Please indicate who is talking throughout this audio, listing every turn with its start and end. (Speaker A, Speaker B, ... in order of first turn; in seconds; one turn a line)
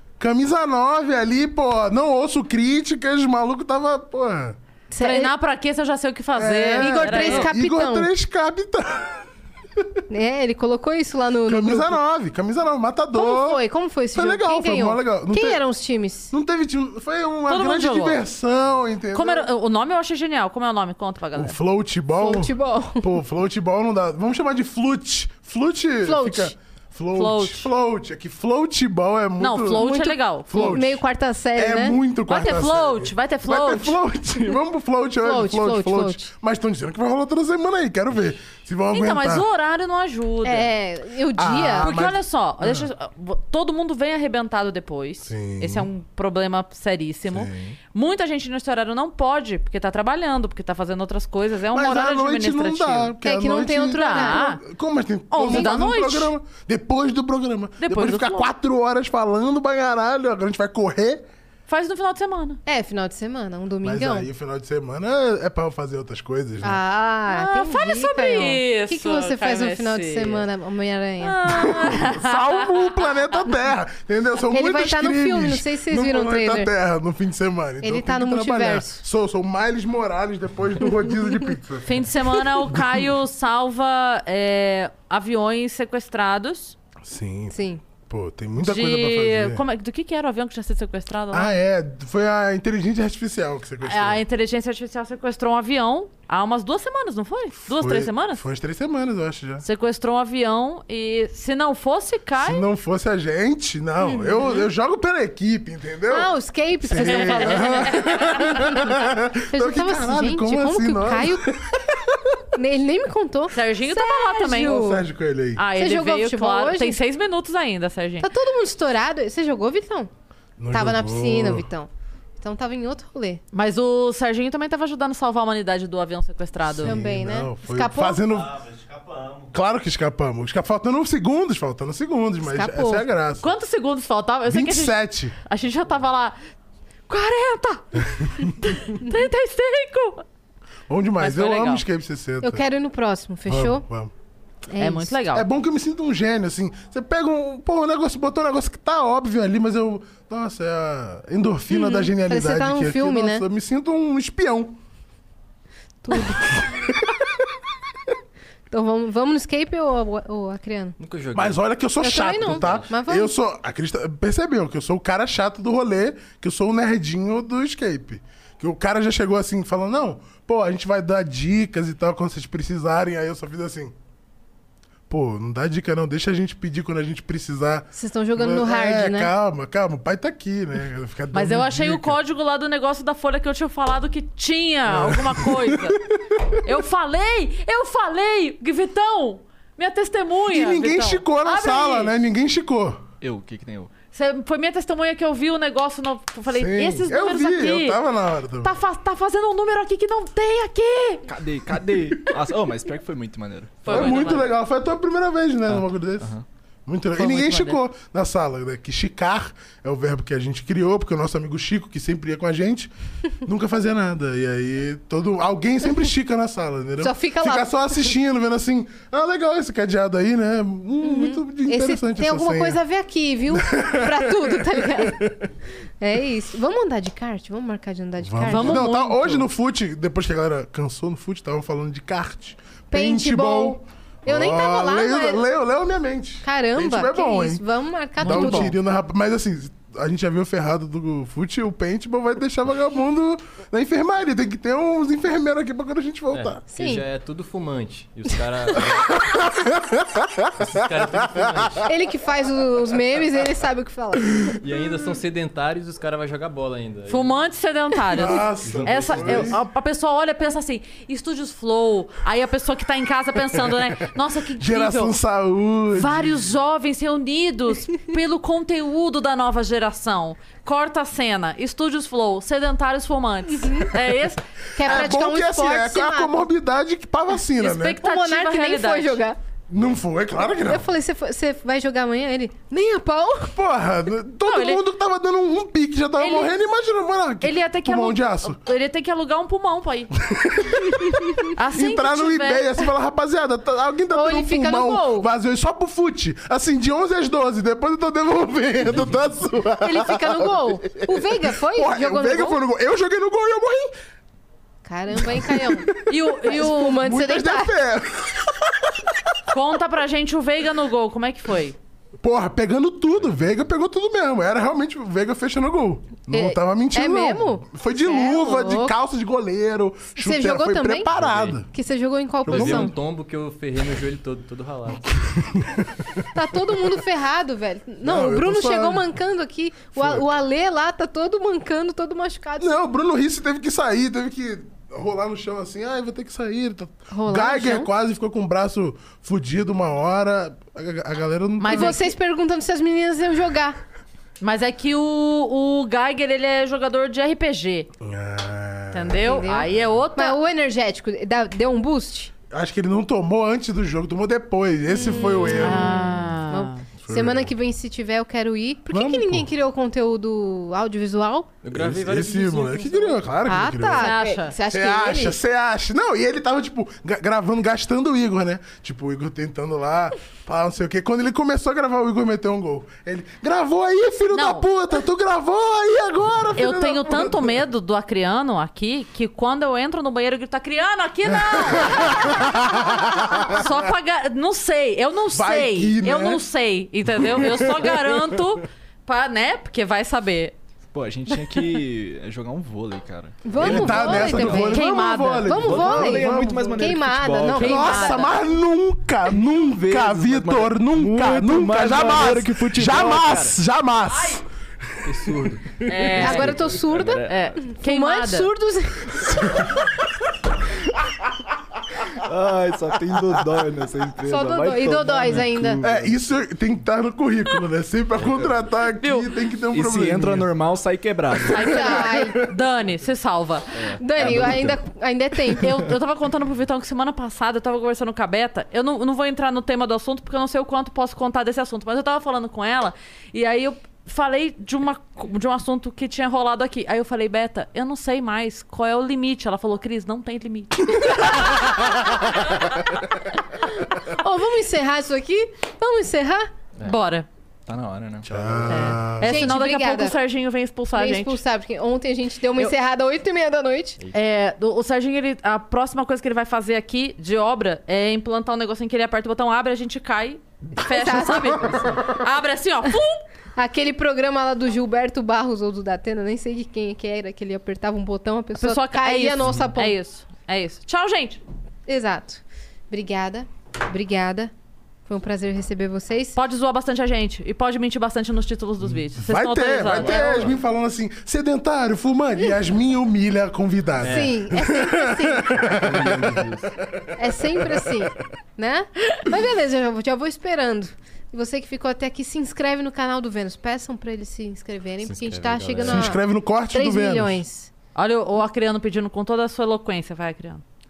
Speaker A: 0.2-4.6
Speaker B: 4.9-5.3
Speaker C: 5.0-7.5
Speaker A: 6.4-9.3
Speaker B: 6.7-8.1
Speaker B: 10.1-12.0
Speaker A: 11.4-13.6
Speaker B: 13.1-16.3
Speaker A: 14.1-15.6
Speaker A: 16.3-19.5
Speaker C: 17.5-18.2
Speaker C: 19.1-21.6
Speaker A: 21.4-29.9
Speaker B: 22.1-23.2
Speaker B: 26.0-26.5
Speaker C: 27.1-27.7
Speaker C: 29.4-30.7
Speaker B: 29.7-32.0
Speaker A: 30.5-31.0
Speaker A: 31.6-39.5
Speaker C: 32.3-34.0
Speaker B: 35.2-36.3
Speaker C: 38.9-40.7
Speaker B: 40.4-41.9
Speaker A: 41.4-42.9
Speaker C: 41.8-53.1
Speaker A: 45.3-45.9
Speaker A: 47.3-47.8
Speaker A: 51.7-61.2
Speaker B: 53.2-54.6
Speaker C: 53.9-54.6
Speaker C: 55.3-56.3
Speaker B: 55.4-55.8
Speaker C: 57.8-58.5
Speaker C: 61.7-62.6
Speaker B: 62.7-64.3
Speaker A: 63.8-66.8
Speaker B: 66.6-71.4
Speaker C: 67.3-70.5
Speaker C: 71.2-73.0
Speaker A: 71.5-82.1
Speaker B: 74.5-76.7
Speaker B: 77.8-79.0
Speaker C: 81.8-86.8
Speaker A: 82.7-83.1
Speaker A: 87.0-89.6
Speaker B: 87.5-87.8
Speaker C: 88.6-91.5
Speaker A: 91.3-94.2
Speaker C: 93.8-98.5
Speaker A: 97.6-99.6
Speaker C: 99.6-102.6
Speaker A: 102.4-112.3
Speaker B: 104.0-104.7
Speaker B: 106.1-108.8
Speaker C: 107.0-108.5
Speaker B: 109.5-111.5
Speaker B: 112.6-115.1
Speaker C: 113.5-114.8
Speaker A: 114.5-115.6
Speaker C: 115.6-118.3
Speaker B: 115.7-117.0
Speaker B: 118.2-120.1
Speaker A: 120.6-121.7
Speaker B: 120.7-121.9
Speaker B: 122.4-123.4
Speaker C: 123.5-127.0
Speaker A: 126.8-128.8
Speaker B: 126.8-128.2
Speaker A: 129.5-133.5
Speaker B: 132.4-133.1
Speaker C: 133.4-136.4
Speaker A: 134.5-135.4
Speaker C: 137.1-140.2
Speaker A: 138.2-138.5
Speaker A: 140.9-142.6
Speaker C: 141.2-141.8
Speaker B: 142.4-143.8
Speaker A: 143.5-144.1
Speaker B: 144.7-145.2
Speaker C: 144.8-145.5
Speaker A: 145.3-154.8
Speaker B: 151.7-153.4
Speaker B: 156.0-156.4
Speaker A: 156.2-157.3
Speaker B: 158.7-161.0
Speaker D: 161.0-162.9
Speaker A: 161.3-173.9
Speaker B: 162.0-163.3
Speaker A: 175.1-182.2
Speaker B: 177.9-179.3
Speaker C: 181.3-186.0
Speaker A: 184.9-186.6
Speaker C: 186.6-192.1
Speaker A: 190.5-193.0
Speaker E: 193.2-193.9
Speaker C: 194.1-198.0
Speaker A: 196.5-198.8
Speaker C: 198.6-201.3
Speaker E: 201.3-204.0
Speaker A: 201.7-202.4
Speaker D: 203.8-204.5
Speaker C: 203.8-204.5
Speaker A: 203.9-212.9
Speaker E: 205.7-206.4
Speaker C: 207.2-207.8
Speaker A: 213.4-222.8
Speaker B: 217.0-218.1
Speaker B: 221.0-225.3
Speaker A: 223.5-225.5
Speaker B: 226.0-228.9
Speaker A: 228.2-237.6
Speaker C: 228.5-229.5
Speaker B: 232.9-235.4
Speaker B: 236.4-238.8
Speaker A: 238.2-246.7
Speaker C: 238.3-238.7
Speaker D: 246.3-249.1
Speaker B: 246.7-247.0
Speaker A: 249.3-251.8
Speaker D: 250.6-251.9
Speaker B: 251.9-254.5
Speaker D: 254.6-257.3
Speaker C: 257.1-265.2
Speaker A: 258.1-259.6
Speaker A: 264.6-266.5
Speaker C: 265.9-275.1
Speaker B: 274.8-276.5
Speaker A: 274.8-278.0
Speaker C: 277.6-279.2
Speaker B: 278.0-279.4
Speaker A: 279.7-280.9
Speaker B: 280.4-283.5
Speaker A: 283.5-288.6
Speaker C: 284.5-284.9
Speaker C: 286.2-286.6
Speaker C: 287.4-290.1
Speaker A: 290.3-303.9
Speaker C: 291.6-292.9
Speaker B: 294.1-295.3
Speaker D: 298.9-299.2
Speaker B: 299.8-302.6
Speaker B: 304.9-305.9
Speaker A: 305.1-308.9
Speaker C: 306.1-307.1
Speaker B: 306.4-307.8
Speaker C: 309.5-311.8
Speaker A: 312.2-321.7
Speaker B: 316.3-318.9
Speaker B: 320.2-321.1
Speaker D: 321.1-321.6
Speaker B: 321.7-322.9
Speaker D: 322.4-325.1
Speaker A: 322.5-322.9
Speaker A: 325.4-325.9
Speaker B: 326.3-332.7
Speaker A: 326.6-326.9
Speaker A: 328.0-329.1
Speaker A: 329.9-330.3
Speaker A: 332.6-342.1
Speaker B: 337.1-337.9
Speaker C: 341.6-342.1
Speaker B: 341.7-343.8
Speaker C: 344.4-347.9
Speaker A: 348.0-349.5
Speaker C: 348.9-350.4
Speaker B: 349.2-352.3
Speaker A: 352.5-356.3
Speaker B: 354.9-361.6
Speaker C: 355.1-356.8
Speaker A: 356.9-357.5
Speaker A: 358.9-359.5
Speaker D: 361.6-363.4
Speaker A: 361.7-377.6
Speaker B: 363.5-365.4
Speaker C: 364.0-364.6
Speaker C: 374.3-374.7
Speaker C: 376.6-390.5
Speaker A: 381.3-383.6
Speaker A: 385.3-386.4
Speaker A: 387.1-388.3
Speaker E: 390.9-394.7
Speaker B: 393.4-398.4
Speaker A: 393.6-396.9
Speaker C: 394.7-395.6
Speaker E: 395.6-397.8
Speaker A: 397.5-404.4
Speaker C: 397.5-398.4
Speaker E: 399.4-403.6
Speaker C: 404.1-404.4
Speaker A: 405.1-405.4
Speaker D: 405.1-407.2
Speaker E: 405.7-407.6
Speaker C: 405.9-406.6
Speaker B: 406.2-409.5
Speaker C: 407.3-408.5
Speaker E: 412.2-416.2
Speaker B: 414.2-415.8
Speaker A: 415.8-420.6
Speaker E: 418.2-418.5
Speaker C: 419.0-419.3
Speaker E: 419.7-421.8
Speaker C: 421.5-423.8
Speaker B: 421.6-422.4
Speaker A: 421.7-422.5
Speaker E: 423.7-424.8
Speaker B: 424.0-425.9
Speaker C: 425.5-442.8
Speaker B: 444.2-446.5
Speaker C: 446.8-447.3
Speaker E: 447.7-448.7
Speaker D: 448.2-449.2
Speaker A: 448.2-449.6
Speaker C: 448.7-451.4
Speaker B: 449.2-450.2
Speaker B: 450.9-454.0
Speaker C: 454.1-463.2
Speaker B: 460.9-462.0
Speaker B: 463.6-469.9
Speaker C: 468.6-471.4
Speaker B: 471.9-474.5
Speaker B: 475.1-476.4
Speaker C: 476.4-480.5
Speaker A: 479.1-488.1
Speaker B: 479.9-480.5
Speaker D: 484.0-484.4
Speaker B: 484.0-485.6
Speaker D: 485.8-486.7
Speaker B: 487.2-497.7
Speaker D: 495.0-496.1
Speaker A: 495.8-497.4
Speaker C: 497.9-500.6